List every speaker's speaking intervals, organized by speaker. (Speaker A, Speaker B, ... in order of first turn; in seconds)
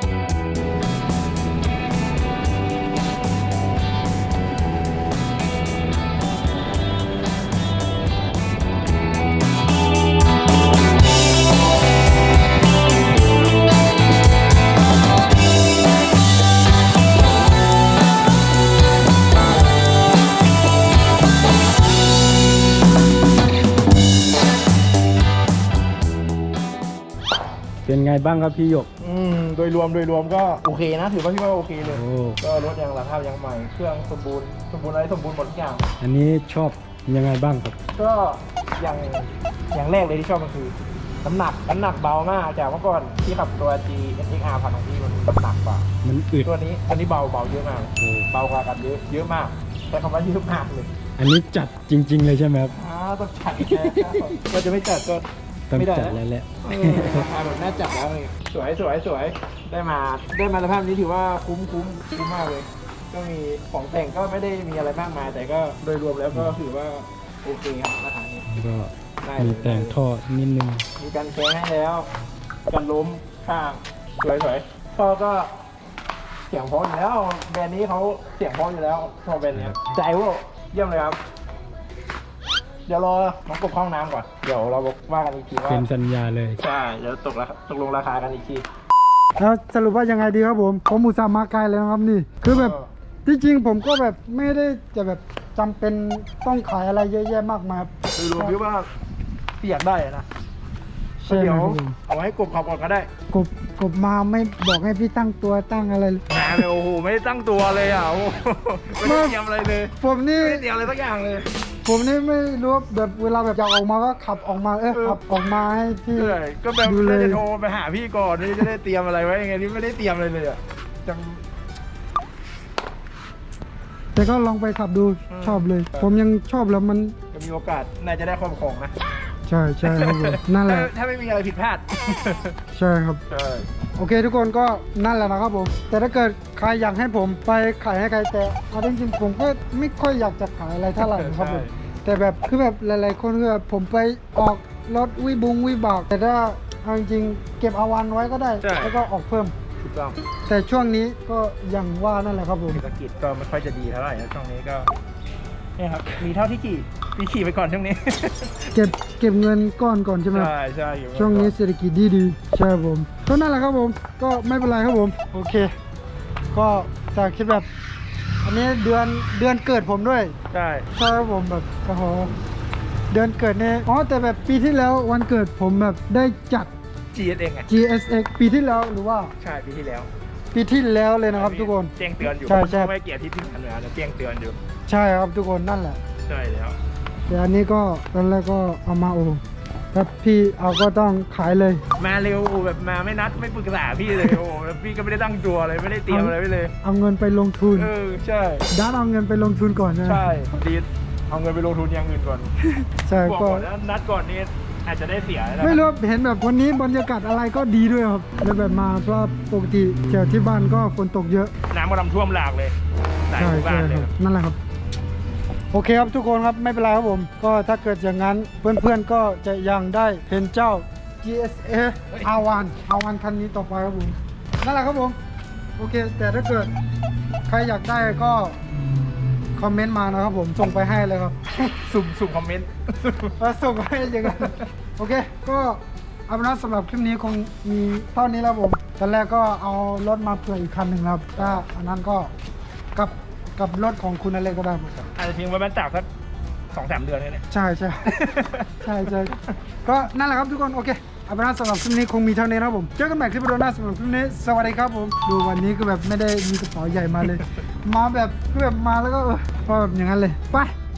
Speaker A: 27.8-28.9, 31.9-32.4, 36.0-37.8, 46.0-46.5, 48.0-48.3, 51.2-52.8, 53.6-54.4, 55.7-57.3, 68.5-70.9, 79.5-79.8, 85.7-86.6
Speaker B: 29.0-35.8, 38.0-45.8, 46.4-50.9, 52.7-68.5, 69.2-70.0, 71.0-72.1, 72.7-75.5, 76.5-81.2, 82.9-85.8, 86.6-88.6, 92.4-92.9, 98.2-98.9, 99.6-100.2, 101.2-103.1, 106.3-111.5, 114.9-115.2, 116.1-121.4, 125.3-126.1, 127.3-128.9, 129.8-132.6, 133.3-133.7, 141.0-141.7, 148.6-149.0, 149.8-150.2, 152.7-154.9, 155.8-158.7, 160.3-161.5, 170.5-170.9, 177.1-177.7, 179.4-180.1, 181.3-184.6, 186.2-186.8, 192.0-196.7, 197.7-198.7, 200.0-202.5, 203.2-205.8, 211.7-212.7, 213.3-214.1, 231.8-233.3, 234.1-234.7, 245.1-246.1, 246.7-247.4, 248.1-249.5
Speaker C: 89.4-98.6, 101.2-102.0, 103.3-106.6, 109.0-109.4, 110.0-110.7, 111.8-117.4, 124.1-127.1, 129.4-130.9, 132.7-133.2, 133.9-149.6, 150.5-152.8, 158.7-160.5, 161.1-165.7, 166.5-167.7, 168.4-170.3, 170.9-172.3, 173.1-176.7, 177.7-179.3, 180.5-182.9, 184.8-186.0, 187.3-189.4, 189.9-191.8, 194.1-194.4, 196.1-197.9, 198.7-200.3, 202.8-203.7, 205.6-211.5, 213.4-214.6, 215.7-225.2, 225.8-226.7, 227.5-228.6, 229.6-231.6, 233.4-242.3, 242.9-244.9, 247.5-248.1, 248.8-249.3, 249.8-260.7